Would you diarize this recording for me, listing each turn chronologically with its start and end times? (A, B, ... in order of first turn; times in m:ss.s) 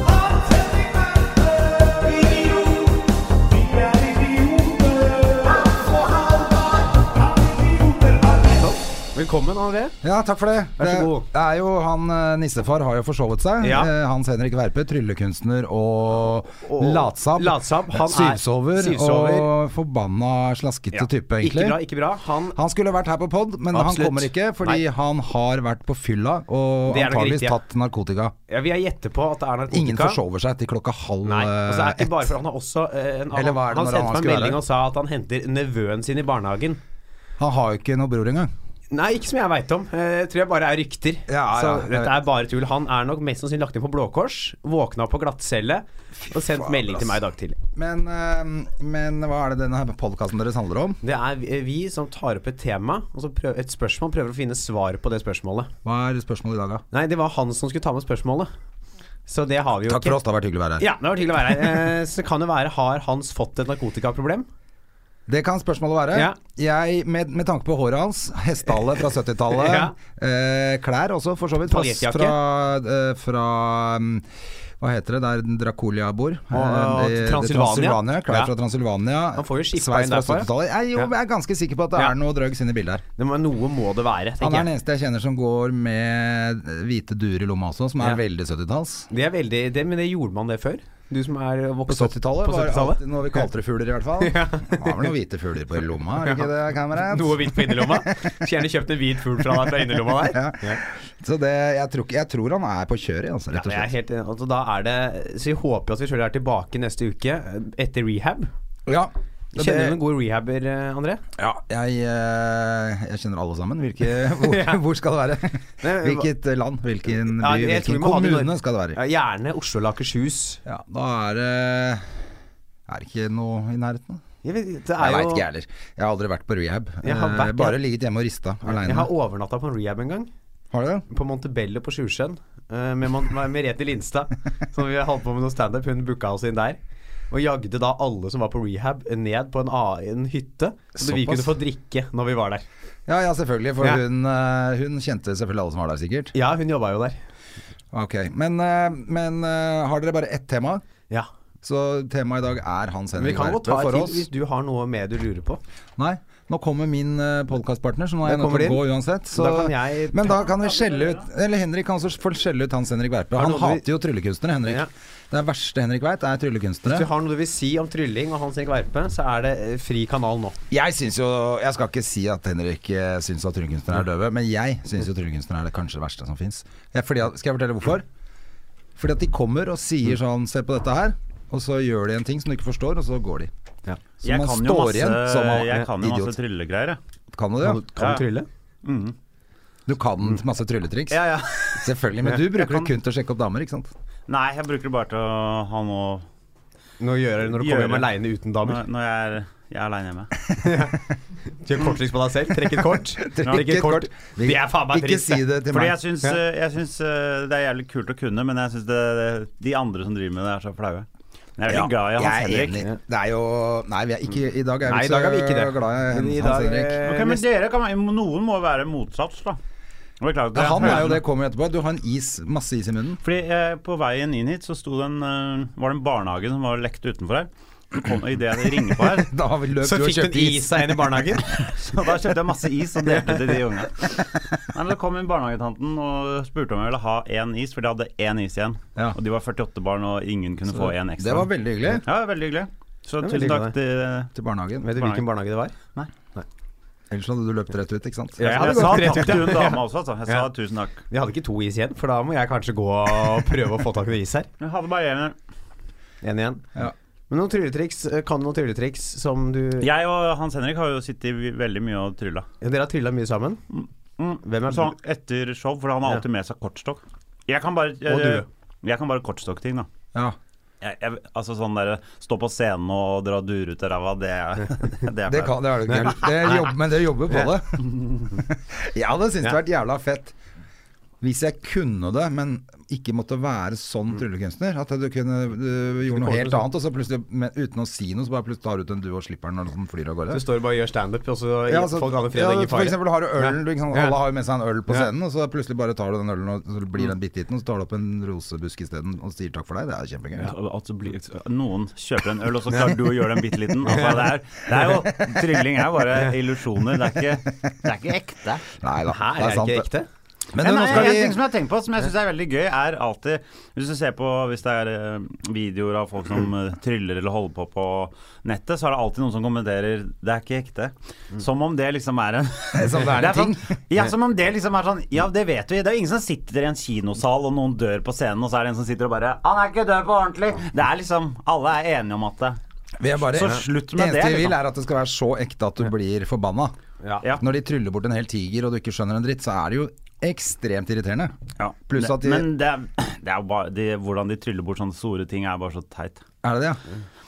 0:00.2-0:00.8 A
0:01.7-0:02.8 A
0:03.6-0:05.6 A
0:07.7-0:08.2 A
0:08.5-0:10.0 B
0:10.0-0:21.8 C
0:10.8-0:11.3 B
0:13.6-0:13.9 B
0:16.6-0:19.5 B
0:20.9-0:22.6 B
0:22.5-0:28.3 C
0:23.7-0:24.8 B
0:26.9-0:27.6 B
0:28.5-0:30.2 B
0:29.7-0:32.3 C
0:31.2-0:36.8 B
0:33.4-0:34.6 C
0:37.4-0:38.5 C
0:38.9-0:47.6 B
0:41.3-0:42.2 C
0:46.2-0:47.1 C
0:47.8-0:51.0 C
0:51.0-0:55.7 B
0:55.8-0:56.8 C
0:56.9-0:58.5 B
0:59.3-1:00.2 B
0:59.9-1:00.9 C
1:00.8-1:04.5 B
1:01.5-1:01.7 C
1:05.3-1:14.3 C
1:06.1-1:06.4 B
1:09.5-1:10.0 B
1:11.6-1:12.4 B
1:14.8-1:23.0 C
1:16.5-1:18.5 B
1:19.4-1:21.1 B
1:23.2-1:24.7 B
1:24.4-1:29.1 C
1:29.1-1:33.5 B
1:31.9-1:38.3 C
1:34.2-1:35.1 B
1:36.2-1:40.8 B
1:39.4-1:43.9 C
1:43.5-1:48.5 B
1:48.9-1:50.0 C
1:49.5-1:51.2 B
1:51.4-1:59.0 C
1:54.2-1:54.8 B
1:55.8-1:56.3 B
1:57.2-2:00.6 B
2:00.7-2:02.2 C
2:02.9-2:04.2 C
2:04.4-2:05.5 B
2:05.0-2:09.1 C
2:07.0-2:07.8 B
2:08.6-2:10.3 B
2:10.7-2:11.1 C
2:11.1-2:16.8 B
2:17.3-2:22.6 B
2:21.0-2:21.6 C
2:23.1-2:26.3 C
2:26.3-2:27.2 B
2:27.9-2:30.8 C
2:31.6-2:34.3 C
2:33.2-2:35.6 B
2:36.0-2:47.1 C
2:38.2-2:40.5 B
2:40.5-2:41.2 A
2:43.3-2:43.9 B
2:46.9-2:50.6 B
2:50.7-2:58.1 C
2:59.0-3:03.5 C
3:04.2-3:06.4 C
3:04.2-3:07.0 A
3:07.3-3:07.8 C
3:07.6-3:08.5 B
3:08.0-3:08.3 A
3:08.8-3:09.2 A
3:09.9-3:13.9 C
3:11.1-3:12.9 A
3:14.3-3:16.3 A
3:17.0-3:18.8 B
3:17.5-3:18.1 A
3:18.6-3:20.3 A
3:20.6-3:25.4 B
3:23.2-3:26.0 C
3:25.7-3:32.8 A
3:31.7-3:37.0 C
3:34.9-3:37.4 B
3:37.0-3:39.6 A
3:40.2-3:41.2 A
3:40.5-3:43.2 C
3:43.2-3:49.3 A
3:49.0-3:51.3 C
3:49.8-3:51.6 B
3:51.7-4:04.3 A
4:01.2-4:02.0 C
4:03.2-4:03.7 B
4:04.4-4:04.9 C
4:04.8-4:05.8 B
4:05.0-4:05.2 A
4:07.1-4:09.5 C
4:08.4-4:10.5 B
4:08.4-4:11.0 A
4:11.1-4:14.5 B
4:14.6-4:15.4 A
4:16.2-4:16.7 B
4:17.3-4:19.9 B
4:19.8-4:22.5 A
4:22.6-4:23.6 B
4:23.7-4:29.9 A
4:24.4-4:25.0 B
4:28.1-4:28.5 B
4:30.8-4:36.3 A
4:35.3-4:40.4 C
4:35.9-4:36.7 B
4:41.2-4:50.4 C
4:46.1-4:46.7 B
4:50.3-4:54.2 B
4:51.7-5:00.5 C
5:00.5-5:08.7 A
5:08.8-5:09.9 C
5:09.1-5:10.1 B
5:10.5-5:11.4 C
5:10.5-5:32.6 A
5:22.7-5:23.8 C
5:33.0-5:36.8 C
5:33.3-5:34.6 A
5:37.4-5:42.5 C
5:41.6-5:46.2 A
5:46.4-5:46.8 C